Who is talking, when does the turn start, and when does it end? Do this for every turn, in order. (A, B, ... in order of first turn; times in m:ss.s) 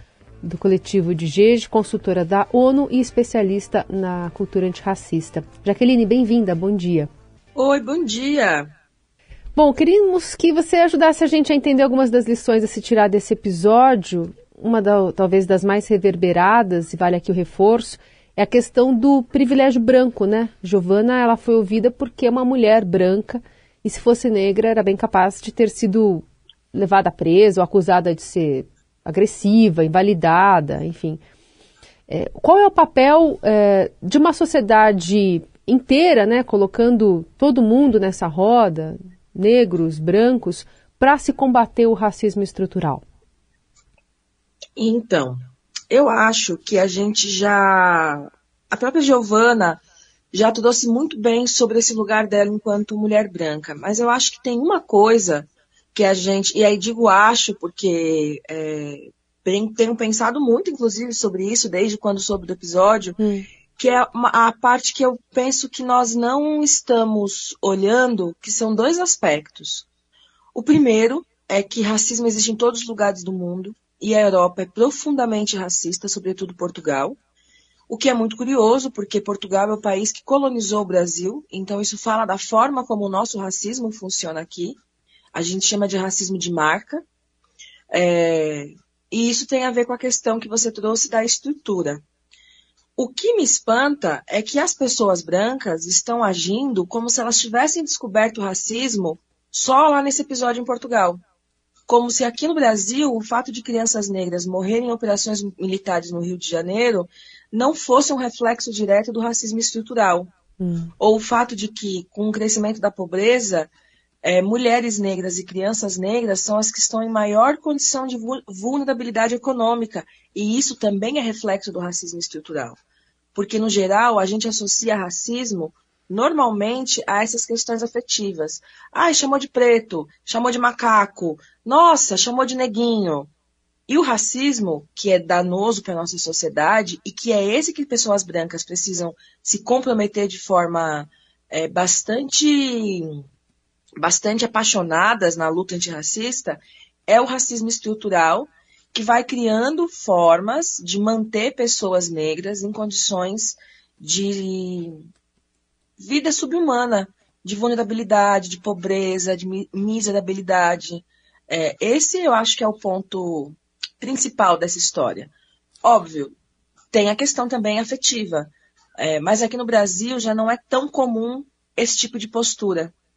0:00.4-0:07.1 A
0:07.6-0:08.7 B
0:09.6-0:31.2 A
0:32.1-0:43.0 A
0:44.8-0:49.8 B
0:50.3-1:03.2 B
1:03.2-1:03.4 A
1:03.8-1:09.8 B
1:10.5-1:17.2 B
1:17.9-1:24.8 B
1:25.3-1:27.0 B
1:27.9-1:32.0 B
1:33.0-1:41.2 B
1:41.9-1:50.3 B
1:50.6-1:50.9 A
1:51.0-1:53.7 B
1:54.2-2:02.8 B
2:03.3-2:13.3 B
2:13.9-2:23.2 B
2:24.0-2:34.9 B
2:36.0-2:45.3 B
2:45.8-2:46.3 B
2:46.9-2:52.9 B